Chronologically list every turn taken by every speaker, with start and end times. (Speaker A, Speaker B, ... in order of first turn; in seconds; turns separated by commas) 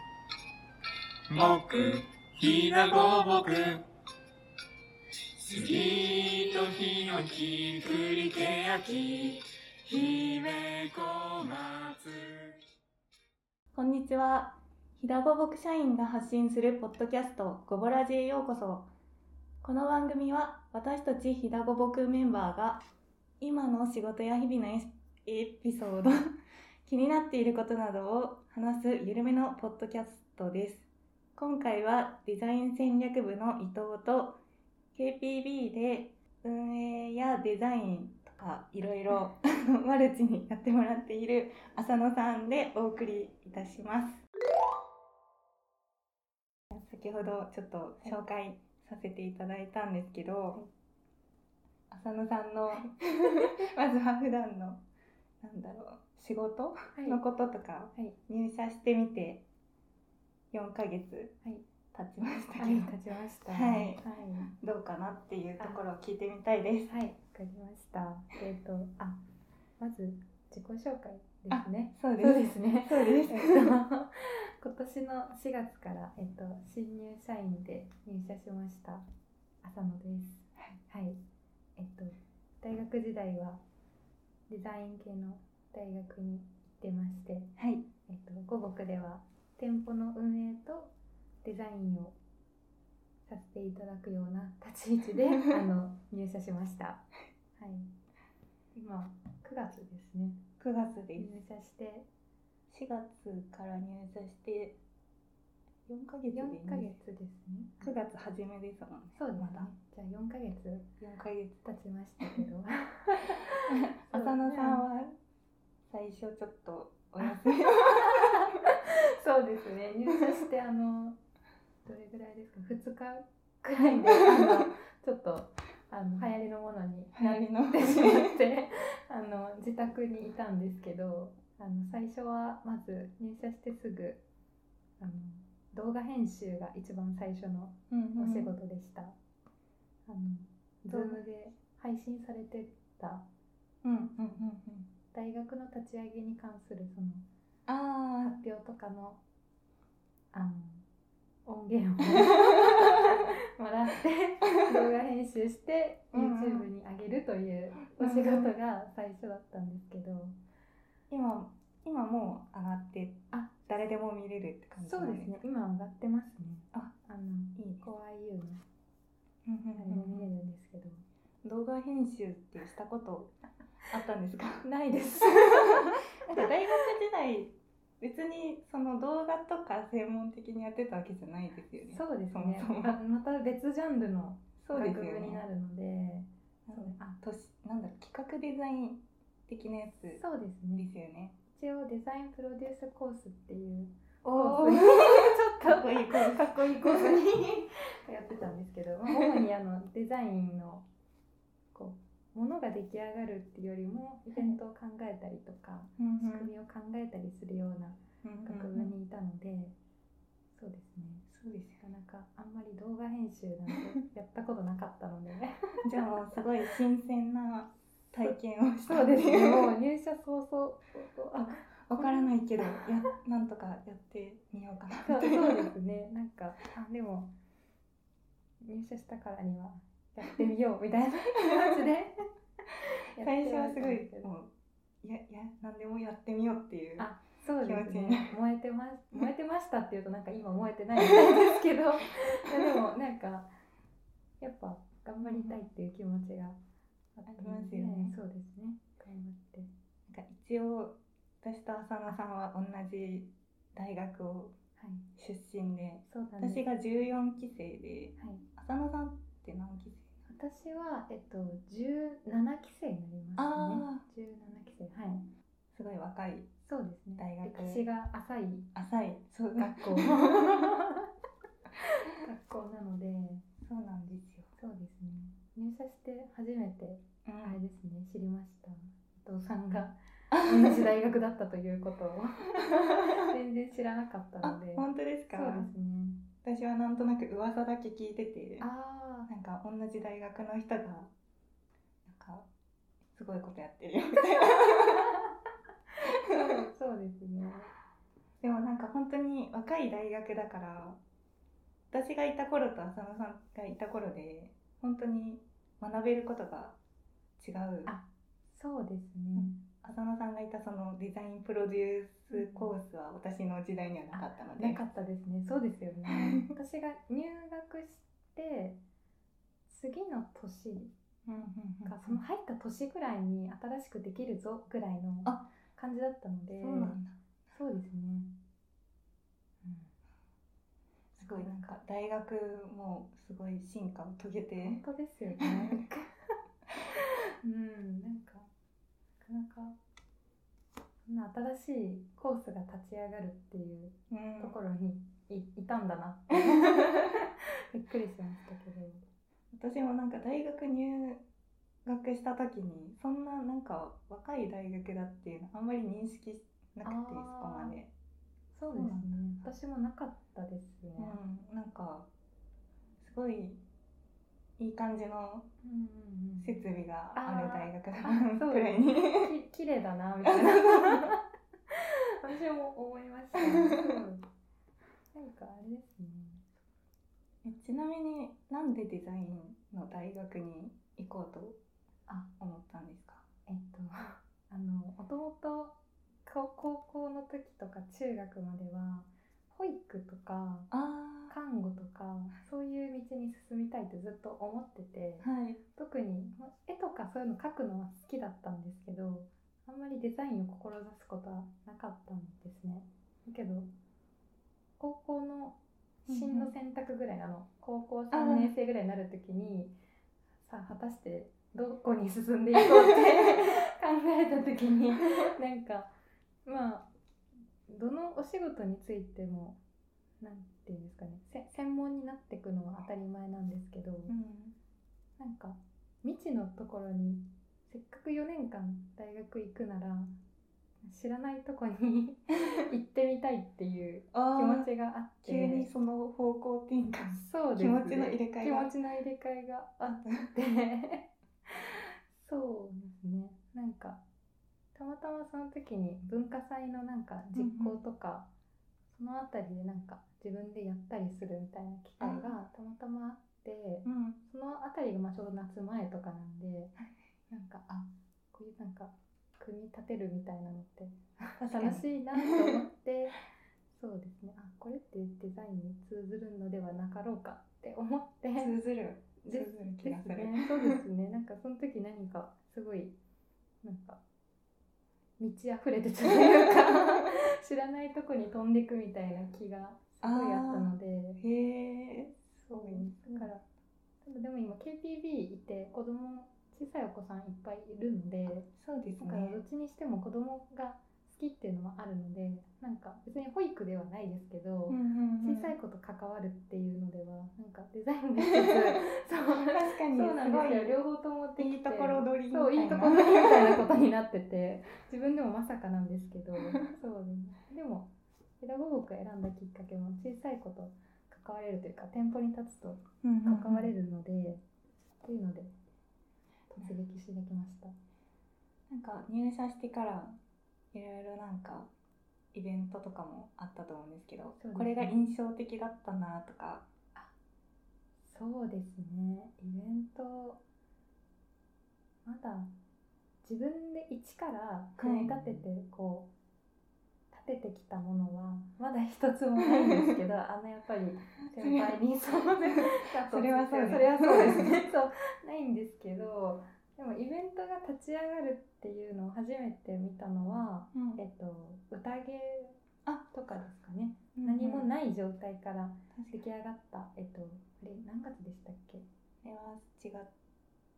Speaker A: 1.3-3.8, Speaker A: 5.4-12.6, Speaker B: 13.7-18.9, Speaker B: 19.6-22.8, Speaker B: 23.4-26.3, Speaker B: 26.9-34.4, Speaker B: 34.9-44.2, Speaker B: 46.7-50.6, Speaker B: 51.9-54.8, Speaker C: 52.7-53.7, Speaker B: 55.4-59.4, Speaker C: 56.9-57.2, Speaker B: 60.5-61.3, Speaker B: 61.9-62.9, Speaker C: 62.6-64.5, Speaker B: 63.5-66.9, Speaker C: 65.6-65.8, Speaker C: 66.9-69.2, Speaker C: 69.8-79.0, Speaker B: 71.5-73.8, Speaker C: 79.6-81.2, Speaker C: 81.8-83.6, Speaker C: 84.5-92.2, Speaker B: 87.6-87.9, Speaker C: 93.3-97.9, Speaker C: 98.7-100.4, Speaker B: 100.6-101.4, Speaker C: 101.2-102.1, Speaker B: 102.7-104.8, Speaker B: 105.9-107.0, Speaker C: 106.3-108.0, Speaker B: 107.8-109.7, Speaker C: 109.1-110.9, Speaker B: 111.0-111.6, Speaker C: 111.6-114.8, Speaker B: 113.7-115.1, Speaker B: 115.9-118.5, Speaker C: 118.0-121.2, Speaker C: 121.8-134.2, Speaker B: 124.2-124.5, Speaker B: 127.1-128.4, Speaker C: 135.0-139.1, Speaker B: 137.9-138.5, Speaker C: 140.1-143.2, Speaker B: 140.9-141.2, Speaker B: 143.8-144.9, Speaker C: 145.1-147.2, Speaker B: 147.7-148.4, Speaker C: 148.2-149.2, Speaker C: 150.3-150.8, Speaker C: 151.4-160.3, Speaker B: 156.1-156.7, Speaker B: 157.9-158.5, Speaker B: 161.1-165.4, Speaker C: 163.3-163.7, Speaker C: 164.8-168.6, Speaker B: 167.6-167.8, Speaker B: 169.4-170.3, Speaker C: 169.7-171.0, Speaker B: 171.4-173.3, Speaker B: 173.9-174.7, Speaker C: 174.6-176.5, Speaker B: 175.5-183.0, Speaker C: 181.9-187.2, Speaker B: 184.6-185.4, Speaker B: 186.7-190.2, Speaker C: 190.2-190.9, Speaker B: 190.8-191.3, Speaker C: 191.5-200.8, Speaker B: 194.2-197.3, Speaker B: 199.1-199.4, Speaker C: 201.7-209.8, Speaker B: 206.0-206.5, Speaker B: 208.2-208.9, Speaker C: 210.5-211.3, Speaker B: 211.3-211.8, Speaker C: 211.8-216.4, Speaker B: 215.8-219.7, Speaker C: 218.2-222.8, Speaker B: 221.3-225.7, Speaker C: 225.0-227.3, Speaker C: 228.6-232.2, Speaker C: 233.1-234.3, Speaker B: 233.2-234.5, Speaker B: 235.0-238.3, Speaker C: 237.0-243.5, Speaker B: 241.2-241.4, Speaker C: 244.4-246.6, Speaker B: 245.2-245.6, Speaker C: 247.1-249.7, Speaker B: 247.3-248.1, Speaker B: 250.1-254.5, Speaker C: 254.8-255.1, Speaker B: 255.2-260.1, Speaker C: 256.1-256.6, Speaker C: 258.2-258.5, Speaker C: 260.3-265.3, Speaker B: 263.4-264.0, Speaker B: 265.7-266.5, Speaker C: 266.6-268.7, Speaker B: 267.2-267.8, Speaker B: 268.7-270.7, Speaker C: 269.6-271.1, Speaker C: 271.8-273.4, Speaker B: 273.6-274.5, Speaker C: 274.5-286.3, Speaker B: 277.2-277.6, Speaker B: 280.4-280.8, Speaker B: 284.4-285.7, Speaker B: 286.4-288.7, Speaker C: 288.6-289.3, Speaker B: 289.3-291.1, Speaker B: 292.1-292.5, Speaker B: 293.1-295.1, Speaker C: 294.3-295.3, Speaker C: 296.1-297.7, Speaker B: 296.3-296.6, Speaker B: 298.4-301.0, Speaker B: 301.9-306.8, Speaker B: 307.4-307.9, Speaker C: 307.9-309.6, Speaker B: 309.3-314.8, Speaker C: 312.3-312.7, Speaker C: 314.1-318.8, Speaker B: 316.1-316.5, Speaker C: 319.7-320.9, Speaker B: 321.2-322.2, Speaker C: 321.9-328.3, Speaker B: 326.5-327.2, Speaker C: 329.6-329.9, Speaker B: 331.2-334.8, Speaker C: 331.2-331.8, Speaker C: 334.6-336.3, Speaker B: 335.4-335.8, Speaker C: 337.4-338.5, Speaker C: 339.2-339.8, Speaker C: 341.1-349.0, Speaker B: 344.1-344.6, Speaker B: 346.4-346.9, Speaker B: 349.5-351.2, Speaker B: 351.9-357.9, Speaker C: 356.8-357.8, Speaker C: 358.5-361.2, Speaker B: 358.7-359.1, Speaker B: 361.0-362.1, Speaker B: 363.0-363.6, Speaker B: 364.6-365.5, Speaker C: 365.6-366.6, Speaker B: 366.4-369.3, Speaker C: 367.1-371.2, Speaker B: 370.2-371.1, Speaker C: 372.2-374.2, Speaker B: 373.4-374.0, Speaker C: 375.1-376.5, Speaker B: 377.4-381.6, Speaker B: 382.4-383.2, Speaker C: 383.5-390.7, Speaker B: 390.7-391.3, Speaker C: 391.3-403.7, Speaker B: 395.2-395.6, Speaker C: 404.8-409.8, Speaker B: 406.1-406.5, Speaker B: 408.1-408.5, Speaker C: 410.4-415.9, Speaker C: 416.4-416.9, Speaker C: 417.7-419.6, Speaker C: 420.2-424.1, Speaker B: 424.1-424.6, Speaker C: 425.2-430.1, Speaker C: 430.8-435.7, Speaker B: 434.1-434.7, Speaker B: 435.2-438.7, Speaker C: 437.1-441.1, Speaker B: 440.0-440.3, Speaker C: 442.1-444.0, Speaker C: 444.7-448.3, Speaker B: 447.3-447.8, Speaker C: 448.9-456.7, Speaker B: 452.0-452.3, Speaker B: 453.8-454.2, Speaker C: 457.3-468.6, Speaker B: 461.4-462.6, Speaker B: 468.4-470.8, Speaker C: 469.2-473.0, Speaker C: 473.6-474.0, Speaker C: 475.2-481.2, Speaker B: 476.1-476.4, Speaker B: 480.0-483.3, Speaker C: 482.5-483.5, Speaker C: 484.0-514.4, Speaker B: 488.6-489.4, Speaker B: 494.7-495.5, Speaker B: 498.4-498.8, Speaker B: 499.5-500.8, Speaker B: 501.4-503.6, Speaker B: 513.0-513.7, Speaker C: 515.0-515.5, Speaker C: 516.5-517.7, Speaker B: 518.7-520.2, Speaker B: 520.7-521.7, Speaker B: 522.3-526.7, Speaker C: 524.4-525.0, Speaker C: 528.0-530.4, Speaker C: 532.0-532.5, Speaker C: 533.2-536.1, Speaker B: 534.8-535.3, Speaker C: 537.1-558.8, Speaker B: 539.4-539.9, Speaker B: 541.4-541.8, Speaker B: 542.5-544.6, Speaker B: 550.7-551.0, Speaker B: 554.1-554.7, Speaker B: 559.2-560.1